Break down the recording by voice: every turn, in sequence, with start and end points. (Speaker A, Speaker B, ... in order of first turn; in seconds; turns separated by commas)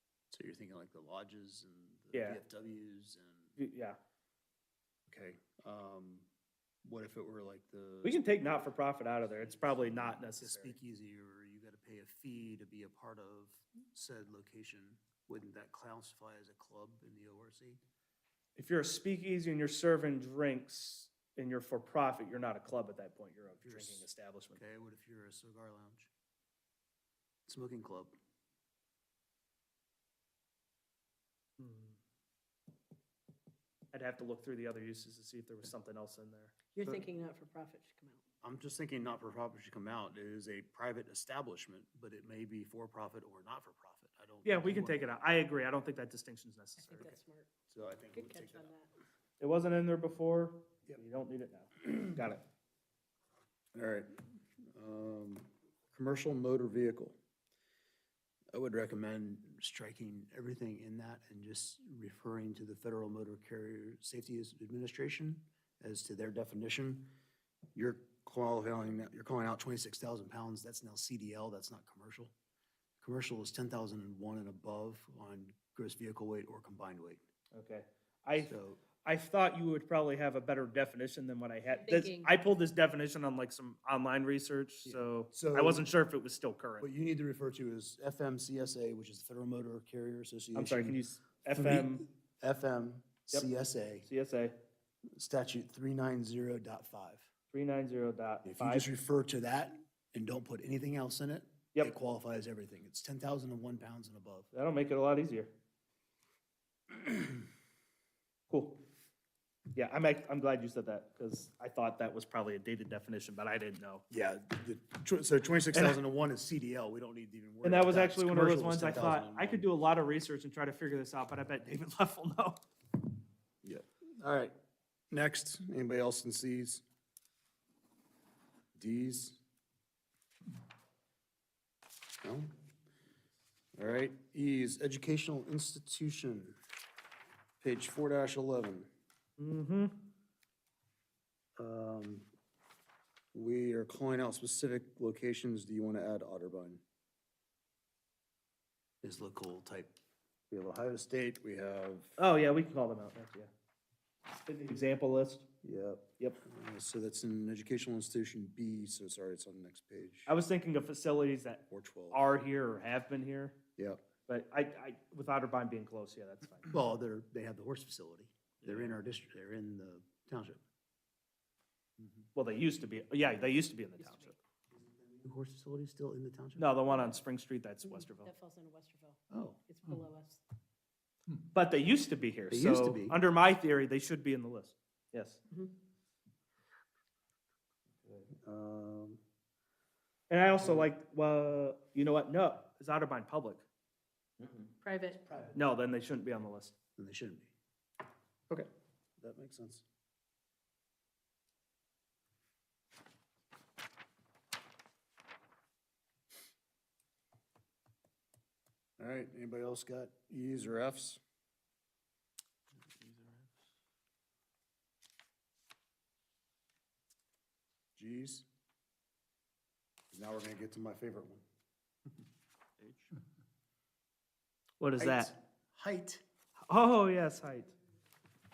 Speaker A: 0.3-3.6, Speaker B: 2.1-2.4, Speaker B: 3.6-4.0, Speaker A: 5.1-6.3, Speaker A: 6.8-8.2, Speaker B: 8.0-10.8, Speaker A: 9.4-17.8, Speaker B: 18.6-24.6, Speaker A: 23.6-26.1, Speaker A: 27.5-28.1, Speaker B: 31.6-32.0, Speaker B: 33.9-37.0, Speaker C: 36.7-38.2, Speaker A: 38.4-45.1, Speaker B: 44.5-47.1, Speaker C: 46.8-47.5, Speaker A: 47.7-48.7, Speaker C: 48.1-48.9, Speaker B: 49.4-52.4, Speaker A: 53.7-54.1, Speaker A: 54.7-57.1, Speaker A: 58.5-67.1, Speaker A: 67.8-72.3, Speaker A: 73.0-77.2, Speaker B: 77.5-86.9, Speaker A: 78.4-78.8, Speaker C: 81.8-82.3, Speaker A: 84.8-85.9, Speaker A: 86.8-91.0, Speaker B: 90.5-92.1, Speaker A: 91.5-94.1, Speaker B: 94.0-94.5, Speaker A: 95.2-97.3, Speaker B: 97.5-98.9, Speaker A: 98.5-104.5, Speaker B: 104.5-105.5, Speaker B: 108.5-108.8, Speaker B: 109.7-114.0, Speaker A: 114.1-119.7, Speaker B: 117.6-122.6, Speaker A: 123.6-124.5, Speaker A: 125.1-126.8, Speaker A: 128.8-129.4, Speaker A: 132.2-132.5, Speaker A: 133.8-136.6, Speaker A: 137.6-138.9, Speaker B: 139.4-140.1, Speaker A: 141.6-142.3, Speaker A: 143.3-146.8, Speaker A: 149.0-150.0, Speaker A: 150.5-152.2, Speaker B: 152.2-153.5, Speaker B: 154.3-155.5, Speaker A: 155.6-160.3, Speaker B: 160.3-163.6, Speaker A: 161.7-162.3, Speaker B: 164.3-166.8, Speaker A: 166.7-170.6, Speaker B: 168.6-169.0, Speaker B: 172.3-174.4, Speaker A: 174.7-177.0, Speaker B: 176.6-178.3, Speaker C: 177.8-180.4, Speaker A: 179.3-179.6, Speaker B: 181.4-185.4, Speaker A: 182.5-183.2, Speaker A: 188.3-189.2, Speaker B: 190.3-193.7, Speaker C: 194.8-195.4, Speaker B: 195.5-196.7, Speaker A: 197.0-197.5, Speaker A: 198.5-199.8, Speaker A: 209.0-211.2, Speaker B: 213.0-213.5, Speaker A: 218.0-218.4, Speaker A: 220.1-221.4, Speaker B: 222.8-223.1, Speaker B: 224.8-225.3, Speaker A: 225.0-226.2, Speaker B: 226.7-227.7